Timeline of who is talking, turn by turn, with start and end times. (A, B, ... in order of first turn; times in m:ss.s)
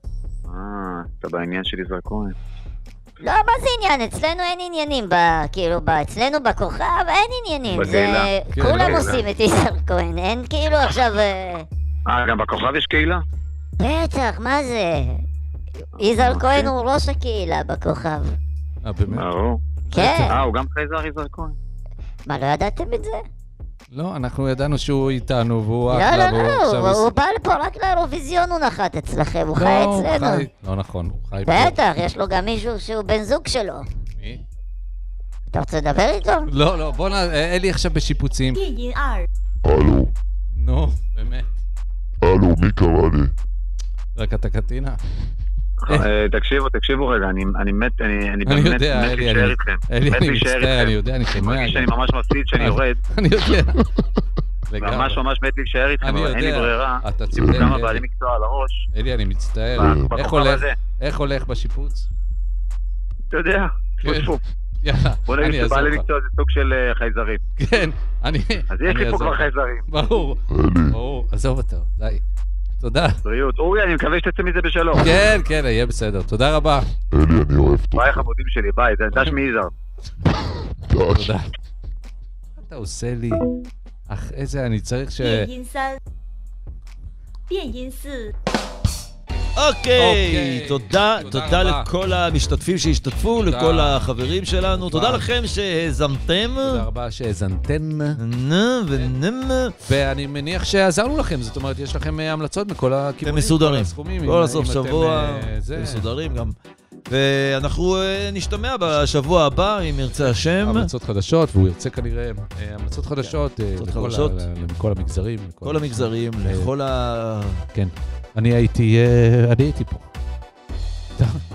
0:00.5-0:02.4 A
0:03.2-0:11.7 B
0:07.7-0:09.3 A
0:08.5-0:09.2 C
0:12.1-0:13.2 A
0:13.8-0:15.2 B
0:16.0-0:18.4 B
0:16.0-0:16.7 A
0:18.8-0:19.3 C
0:19.1-0:21.6 A
0:19.9-0:20.5 C
0:19.9-0:20.4 B
0:22.3-0:23.2 B
0:23.9-0:27.1 C
0:25.9-0:30.5 B
0:29.5-0:31.8 C
0:31.5-0:33.9 B
0:34.2-0:34.4 C
0:35.5-0:36.5 B
0:36.5-0:38.6 C
0:38.5-0:39.3 D
0:39.6-0:40.1 E
0:40.6-0:41.5 C
0:42.2-0:43.3 E
0:44.2-0:45.0 C
0:45.8-0:53.0 A
0:48.4-0:51.9 C
0:52.5-0:53.9 C
0:54.7-0:55.2 C
0:54.8-0:58.8 A
0:56.0-0:58.0 C
0:57.3-0:57.8 E
0:58.9-1:02.1 C
0:59.8-1:00.2 E
0:59.8-1:00.8 A
1:03.3-1:04.4 A
1:04.0-1:06.1 C
1:05.3-1:07.4 A
1:07.6-1:12.2 C
1:08.7-1:09.9 A
1:10.5-1:11.0 E
1:12.8-1:13.2 C
1:13.2-1:15.2 A
1:15.0-1:16.9 C
1:17.1-1:18.2 E
1:18.0-1:19.7 A
1:20.4-1:21.4 E
1:21.1-1:21.4 C
1:22.6-1:23.4 C
1:24.1-1:25.5 C
1:25.2-1:26.0 D
1:27.5-1:28.3 D
1:29.6-1:36.9 F
1:30.0-1:31.9 C
1:33.3-1:34.1 C
1:34.9-1:35.3 C
1:36.6-1:38.2 C
1:38.2-1:39.8 F
1:39.8-1:46.0 C
1:43.2-1:46.6 F
1:47.1-1:50.9 F
1:50.2-1:56.7 C
1:53.8-1:54.4 F
1:55.6-1:57.6 F
1:57.7-2:00.1 C
2:01.2-2:01.4 C